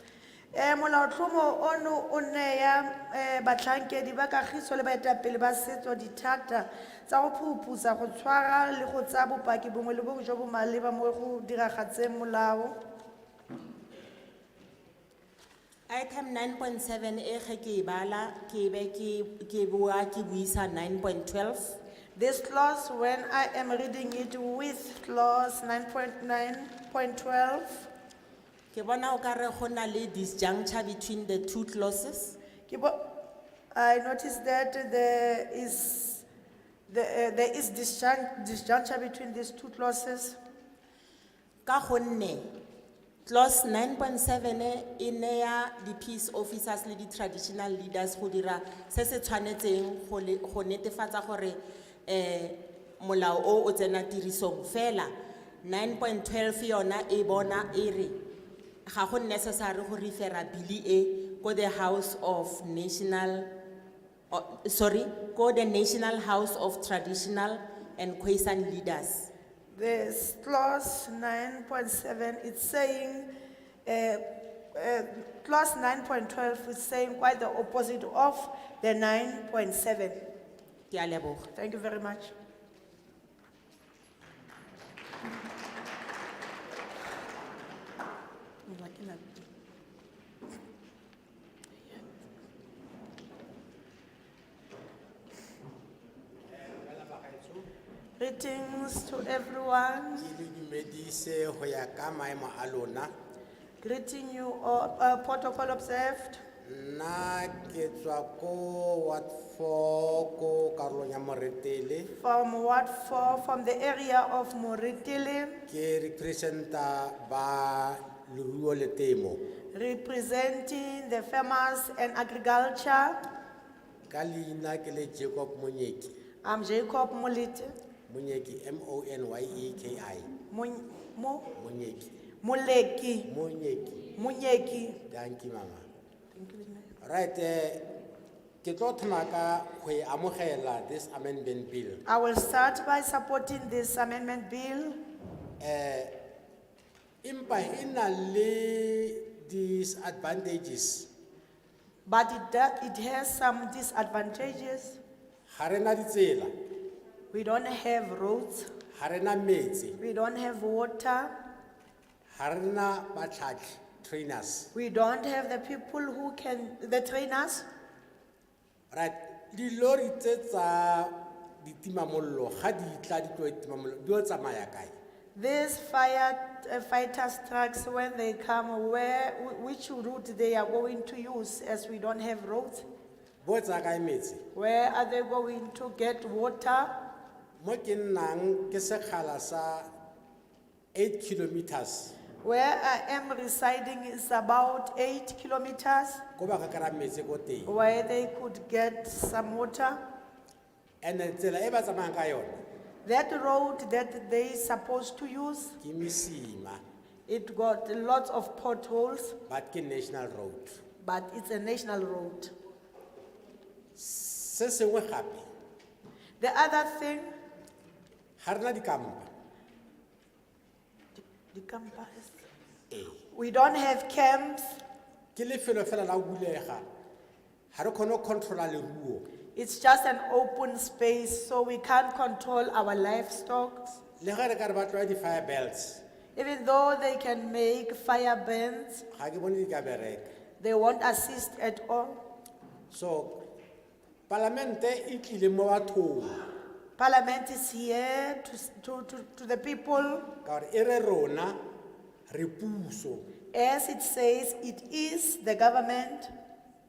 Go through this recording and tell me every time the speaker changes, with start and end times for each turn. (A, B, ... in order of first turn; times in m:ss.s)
0:00.5-0:12.7 A
0:15.9-0:21.8 B
0:22.2-0:27.9 A
0:28.7-0:32.4 B
0:32.7-0:33.2 A
0:33.7-0:36.2 A
0:36.9-0:40.4 A
0:41.6-0:42.5 B
0:43.2-0:58.2 B
0:58.8-1:03.5 B
1:04.3-1:09.3 B
1:09.7-1:13.3 A
1:13.8-1:20.2 A
1:20.9-1:21.5 B
1:21.5-1:22.3 A
1:28.7-1:29.4 A
1:36.5-1:37.7 C
1:38.2-1:40.3 A
1:40.2-1:43.1 C
1:43.8-1:46.4 A
1:46.6-1:52.1 C
1:52.2-1:55.6 A
1:55.7-1:59.4 C
1:59.7-2:03.2 A
2:04.1-2:06.1 C
2:06.4-2:07.8 A
2:08.1-2:10.3 C
2:10.5-2:11.5 A
2:11.6-2:12.2 C
2:12.4-2:13.3 A
2:13.2-2:14.0 C
2:14.2-2:15.0 A
2:15.1-2:15.9 C
2:16.3-2:16.9 A
2:17.0-2:17.8 C
2:18.6-2:22.0 C
2:22.1-2:25.0 A
2:25.6-2:26.1 C
2:27.2-2:31.1 C
2:32.1-2:35.0 A
2:35.5-2:36.5 C
2:37.3-2:38.7 A
2:38.9-2:40.0 C
2:40.0-2:41.3 A
2:42.3-2:44.7 C
2:44.7-2:47.7 A
2:48.9-2:54.9 C
2:55.3-3:02.8 A
3:03.4-3:04.4 C
3:04.5-3:06.9 A
3:07.6-3:09.9 C
3:10.9-3:12.1 C
3:12.4-3:16.2 A
3:16.4-3:17.7 C
3:17.7-3:20.0 A
3:21.0-3:22.6 C
3:23.0-3:25.8 A
3:25.8-3:26.8 C
3:27.3-3:29.4 A
3:29.5-3:30.8 C
3:31.0-3:32.5 A
3:34.0-3:35.5 C
3:36.4-3:37.3 A
3:38.4-3:39.3 C
3:41.2-3:42.3 A
3:42.9-3:43.2 C
3:43.3-3:44.8 A
3:45.4-3:46.8 C
3:47.7-3:49.2 C
3:49.6-3:54.0 A
3:54.2-3:56.0 C
3:56.3-3:59.0 A
3:59.1-4:00.3 C
4:00.6-4:02.2 A
4:02.9-4:03.4 C
4:04.3-4:06.4 C
4:07.0-4:10.3 A
4:10.4-4:11.6 C
4:12.3-4:13.3 C
4:13.5-4:16.3 A